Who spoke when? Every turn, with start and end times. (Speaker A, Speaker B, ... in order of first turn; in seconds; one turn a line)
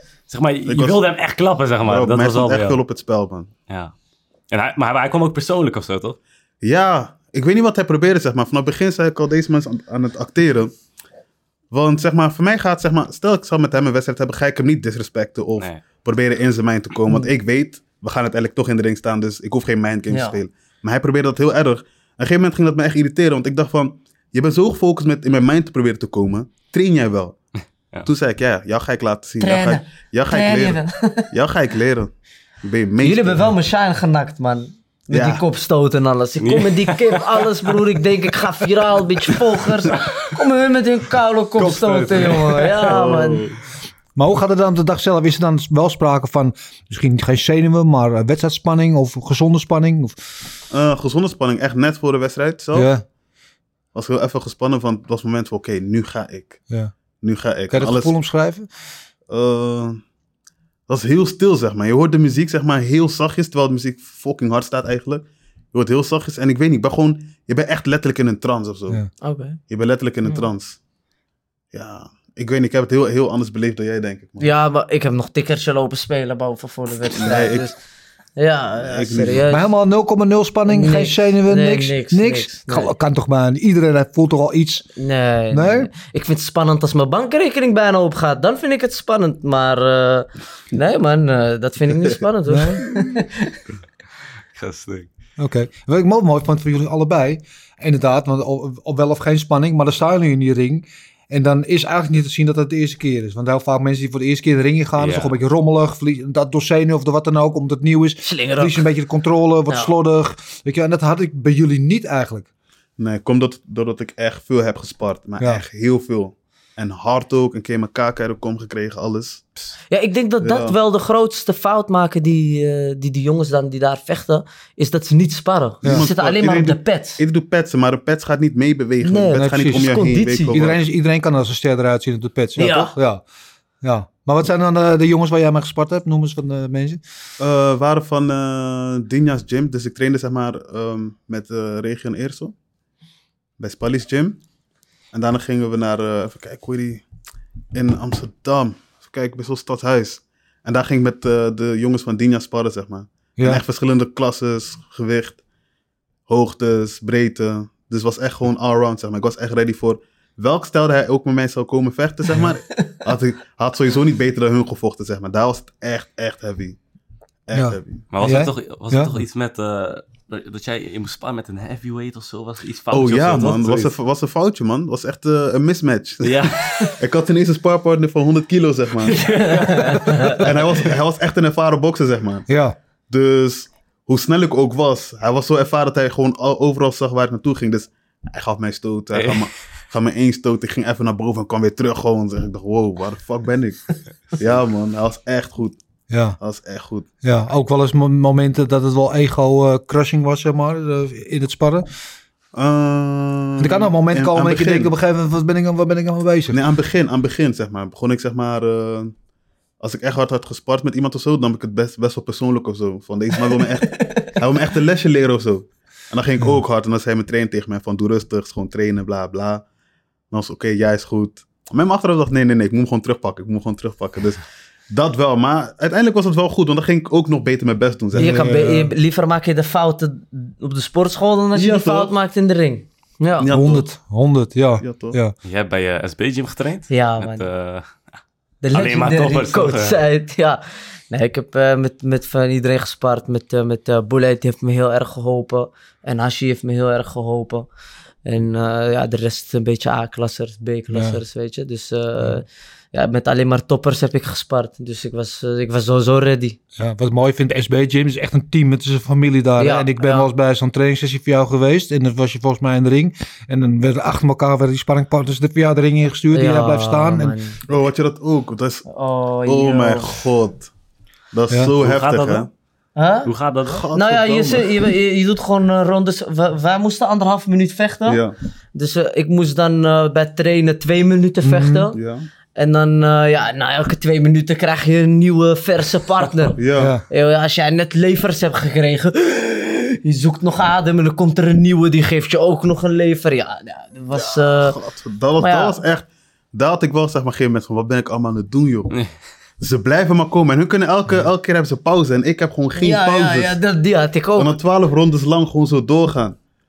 Speaker A: 0.3-2.8
Speaker B: 0.7-1.0
Speaker B: 1.8-3.5
Speaker A: 4.5-6.2
Speaker B: 6.6-10.7
Speaker B: 11.7-27.4
Speaker C: 20.1-20.4
Speaker B: 28.0-30.8
Speaker C: 29.4-31.3
Speaker B: 31.3-32.1
Speaker B: 32.6-33.5
Speaker C: 33.0-43.4
Speaker B: 35.1-35.4
Speaker A: 36.4-37.4
Speaker A: 41.7-42.8
Speaker B: 42.9-43.5
Speaker D: 44.1-50.1
Speaker B: 50.7-52.9
Speaker D: 52.7-53.0
Speaker B: 53.9-56.6
Speaker B: 57.2-58.1
Speaker D: 57.7-58.7
Speaker B: 59.3-60.0
Speaker B: 60.9-69.0
Speaker C: 69.2-69.6
Speaker B: 69.7-70.8
Speaker B: 71.7-74.5
Speaker C: 74.4-77.7
Speaker B: 77.1-77.7
Speaker C: 78.4-79.7
Speaker B: 78.8-79.5
Speaker D: 79.5-84.9
Speaker C: 80.7-82.9
Speaker C: 85.0-93.6
Speaker D: 85.5-85.9
Speaker D: 92.5-92.8
Speaker A: 94.5-95.1
Speaker D: 95.4-112.5
Speaker A: 105.0-105.3
Speaker C: 108.2-108.9
Speaker B: 113.0-119.5
Speaker D: 115.4-115.6
Speaker C: 119.9-127.2
Speaker B: 120.4-120.8
Speaker B: 125.8-130.8
Speaker C: 129.0-130.6
Speaker D: 129.3-133.2
Speaker C: 132.6-132.9
Speaker D: 133.8-137.0
Speaker B: 137.4-142.5
Speaker B: 143.6-144.4
Speaker B: 145.1-147.0
Speaker B: 147.7-155.4
Speaker D: 153.4-153.6
Speaker B: 156.3-166.8
Speaker B: 167.5-168.0
Speaker D: 167.5-169.2
Speaker A: 168.1-173.9
Speaker B: 172.9-179.2
Speaker A: 176.2-176.9
Speaker A: 179.1-180.5
Speaker C: 179.2-180.4
Speaker B: 180.3-182.5
Speaker D: 182.5-182.8
Speaker B: 183.1-195.8
Speaker A: 189.1-189.4
Speaker D: 196.1-196.4
Speaker B: 196.4-197.1
Speaker D: 197.2-201.9
Speaker B: 202.5-204.9
Speaker D: 203.6-206.6
Speaker B: 206.5-209.1
Speaker B: 209.8-219.6
Speaker B: 220.3-228.4
Speaker D: 228.1-228.9
Speaker C: 228.2-233.5
Speaker B: 231.5-232.1
Speaker B: 233.4-233.9
Speaker D: 233.4-235.3
Speaker B: 234.8-235.2
Speaker A: 235.4-237.9
Speaker C: 236.9-237.4
Speaker C: 238.6-247.7
Speaker A: 238.7-240.0
Speaker C: 248.2-256.6
Speaker D: 250.9-251.2
Speaker D: 256.8-267.4
Speaker C: 259.6-260.3
Speaker C: 266.3-267.6
Speaker B: 267.7-268.9
Speaker C: 268.9-270.1
Speaker B: 269.4-270.7
Speaker B: 271.3-272.5
Speaker A: 271.8-272.5
Speaker C: 272.9-273.3
Speaker A: 273.2-273.9
Speaker B: 273.6-274.9
Speaker C: 273.9-278.2
Speaker B: 278.1-278.3
Speaker C: 278.7-282.0
Speaker D: 281.4-281.9
Speaker B: 281.9-282.3
Speaker C: 282.6-294.8
Speaker B: 286.6-286.9
Speaker D: 286.7-287.0
Speaker B: 294.1-298.9
Speaker C: 295.4-295.8
Speaker B: 299.6-303.6
Speaker C: 302.8-304.6
Speaker B: 304.4-306.4